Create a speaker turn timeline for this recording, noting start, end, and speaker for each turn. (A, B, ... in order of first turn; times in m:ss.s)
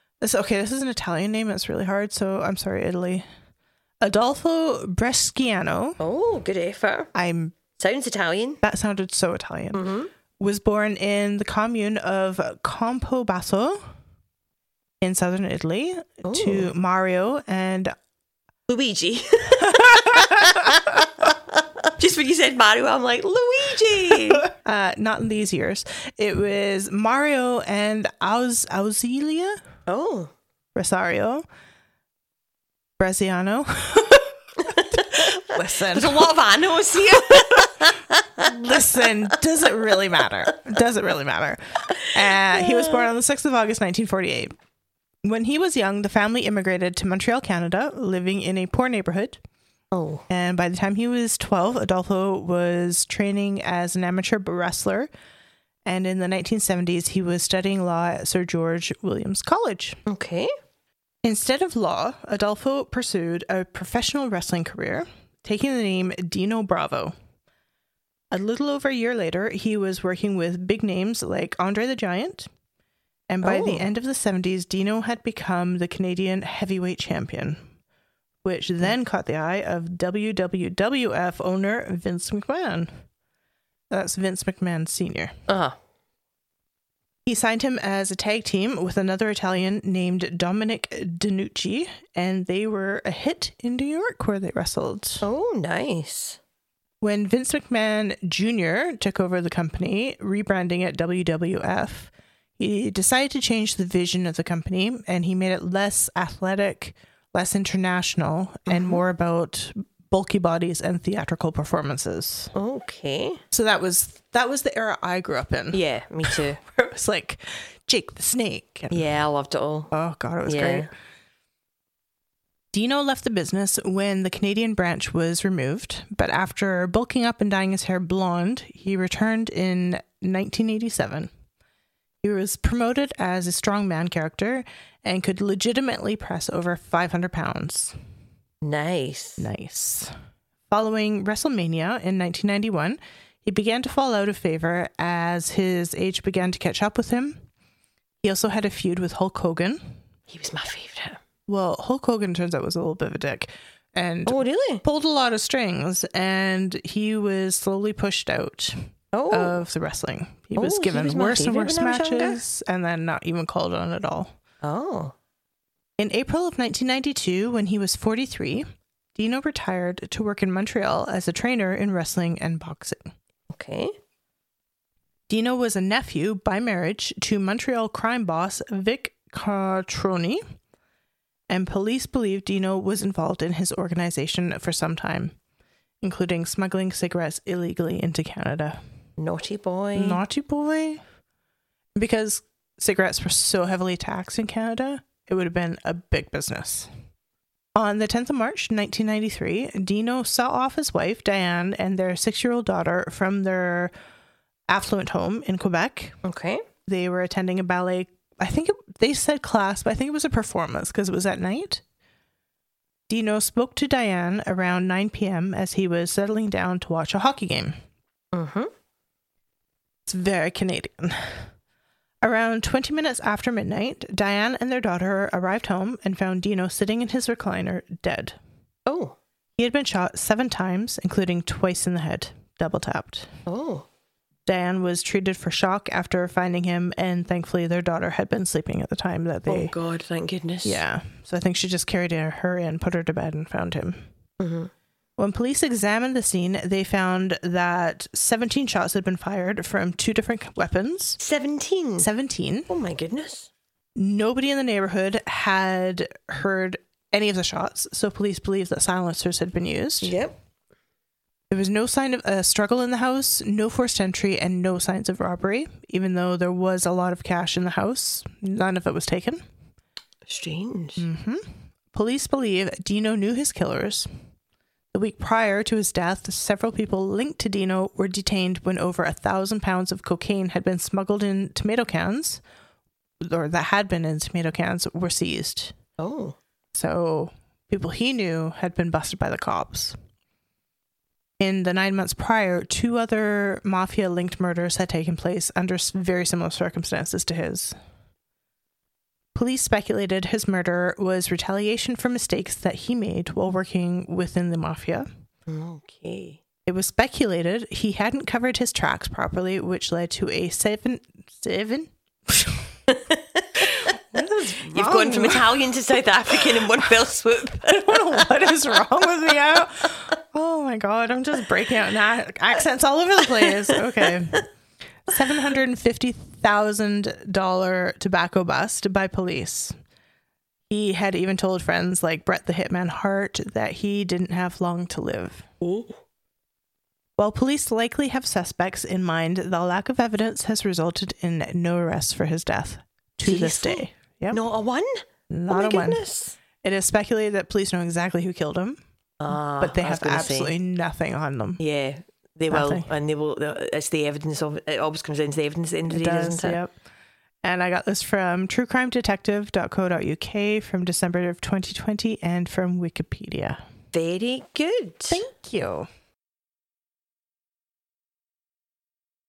0:00.2-0:03.3 A
0:04.0-0:06.0 A
0:06.0-0:07.1 B
0:07.1-0:07.6 A
0:07.8-0:08.6 B
0:08.6-0:09.8 A
0:09.7-0:10.1 B
0:10.4-0:13.9 A
0:15.0-0:17.9 A
0:16.2-0:16.7 B
0:18.7-0:24.4 B
0:19.6-0:20.8 A
0:24.5-0:29.6 A
0:29.9-0:30.3 B
0:30.7-0:31.4 A
0:33.0-0:34.3 A
0:34.6-0:39.3 B
0:34.9-0:36.3 A
0:37.3-0:37.7 A
0:38.4-0:44.6 A
0:41.9-0:43.1 B
0:45.2-0:49.4 A
0:49.9-0:50.2 B
0:50.3-0:55.1 A
0:55.8-1:00.0 A
1:00.1-1:00.5 B
1:01.2-1:07.2 A
1:08.3-1:12.5 A
1:13.3-1:17.7 A
1:13.4-1:13.8 B
1:18.4-1:23.0 A
1:23.9-1:25.3 A
1:25.5-1:25.8 B
1:27.2-1:35.2 A
1:35.2-1:36.4 B
1:37.0-1:52.5 A
1:48.7-1:49.0 B
1:52.6-1:53.4 B
1:53.5-1:59.0 A
1:55.7-1:56.6 B
1:58.9-1:59.9 B
1:59.9-2:00.9 A
2:00.4-2:00.9 B
2:02.7-2:11.3 A
2:12.2-2:18.0 A
2:18.6-2:19.4 B
2:19.4-2:20.1 A
2:20.7-2:27.4 A
2:28.2-2:30.0 A
2:30.3-2:31.2 B
2:31.5-2:44.3 A
2:34.2-2:34.8 B
2:39.1-2:39.6 B
2:40.6-2:42.4 B
2:44.6-2:45.1 B
2:46.0-2:53.1 A
2:53.5-2:53.9 B
2:55.3-3:00.4 A
3:01.5-3:05.3 A
3:06.0-3:08.8 A
3:09.2-3:10.2 B
3:09.9-3:11.0 A
3:11.9-3:16.9 A
3:17.8-3:23.9 A
3:24.7-3:26.2 A
3:26.2-3:26.6 B
3:26.9-3:31.8 A
3:33.1-3:37.8 A
3:38.3-3:38.7 B
3:40.1-3:41.5 A
3:42.2-3:48.4 A
3:48.9-3:49.2 B
3:49.6-3:53.3 A
3:53.5-3:53.8 B
3:54.4-3:59.7 A
3:59.5-4:00.8 B
4:00.6-4:04.0 A
4:04.4-4:04.7 B
4:05.2-4:11.2 A
4:11.2-4:12.1 B
4:12.0-4:12.7 A
4:12.7-4:13.5 B
4:14.0-4:20.2 A
4:20.0-4:20.3 B
4:21.5-4:29.4 A
4:30.2-4:31.0 B
4:31.0-4:34.1 A
4:34.9-4:42.4 A
4:43.2-4:45.7 A
4:46.0-4:46.4 B
4:46.7-4:50.0 A
4:51.4-4:57.8 A
4:59.3-5:05.1 A
5:05.5-5:06.4 B
5:06.7-5:12.7 A
5:12.9-5:13.9 B
5:13.6-5:15.7 A
5:14.5-5:18.5 B
5:16.4-5:24.4 A
5:25.1-5:29.7 A
5:30.7-5:35.6 A
5:37.2-5:44.4 A
5:43.2-5:46.3 B
5:45.3-5:46.0 A
5:46.6-5:48.8 A
5:49.2-5:50.5 B
5:49.6-5:51.6 A
5:51.6-5:56.6 B
5:52.5-5:52.9 A
5:55.9-5:56.7 A
5:57.4-6:03.6 A
6:03.9-6:05.2 B
6:05.1-6:05.9 A